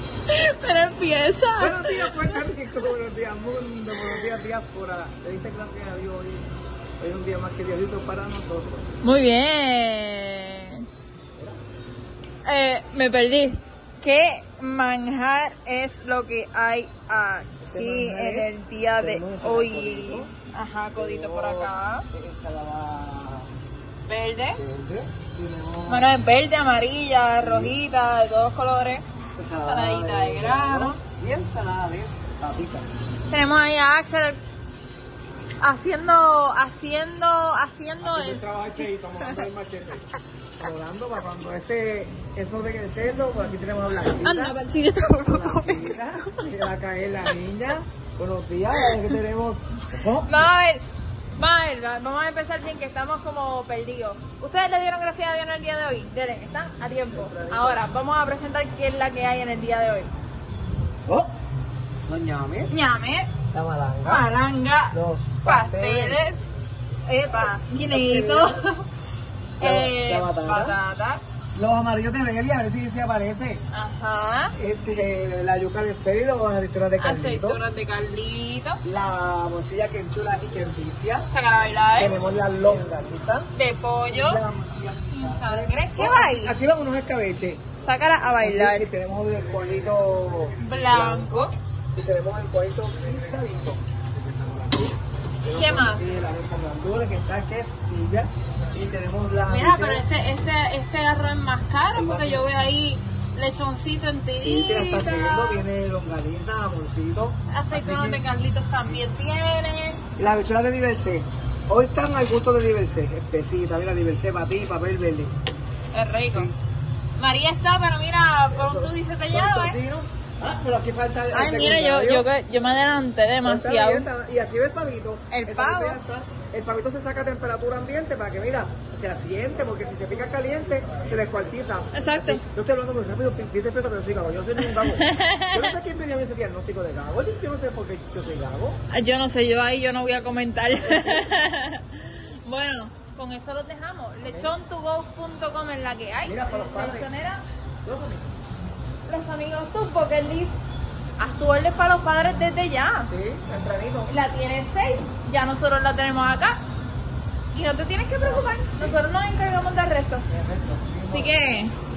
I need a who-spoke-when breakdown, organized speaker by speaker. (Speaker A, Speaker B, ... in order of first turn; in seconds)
Speaker A: 0.3-2.5, 4.0-4.2, 9.0-10.9, 12.5-22.1, 24.1-24.6, 25.9-29.0, 29.6-31.0, 33.3-34.4, 35.6-39.5, 44.2-46.5, 48.8-49.2, 50.3-50.8, 51.4-60.1, 62.7-63.3, 64.0-66.5, 67.1-68.9, 69.6-71.2, 73.7-74.5, 77.0-78.8, 81.3-82.2, 83.5-84.4, 85.1-86.6, 87.8-88.9, 90.6-91.5, 95.5-96.1, 99.5-105.7, 107.5-110.0, 115.9-116.5, 117.2-119.8, 121.3-124.1, 125.3-126.0, 131.9-132.4, 134.6-135.8, 138.9-147.4, 149.1-150.6, 151.2-153.1, 154.1-156.6, 157.5-160.3, 161.1-161.7
Speaker B: 1.6-6.5, 7.0-8.9, 17.7-20.3, 20.9-23.5, 24.6-26.1, 27.4-27.8, 29.4-32.9, 38.0-40.1, 40.6-44.6, 45.3-50.4, 57.1-57.9, 62.1-62.8, 63.5-64.3, 64.9-66.2, 67.8-68.6, 69.6-70.8, 71.6-73.6, 74.6-77.6, 78.8-81.3, 82.0-83.5, 84.1-87.6, 88.4-93.8, 94.4-100.0, 102.0-102.5, 104.4-108.2, 110.2-115.3, 116.2-116.6, 118.5-122.3, 123.4-138.8, 140.9-141.3, 144.2-144.6, 146.2-147.1, 147.8-148.4, 153.1-154.1, 158.6-158.9, 160.3-161.3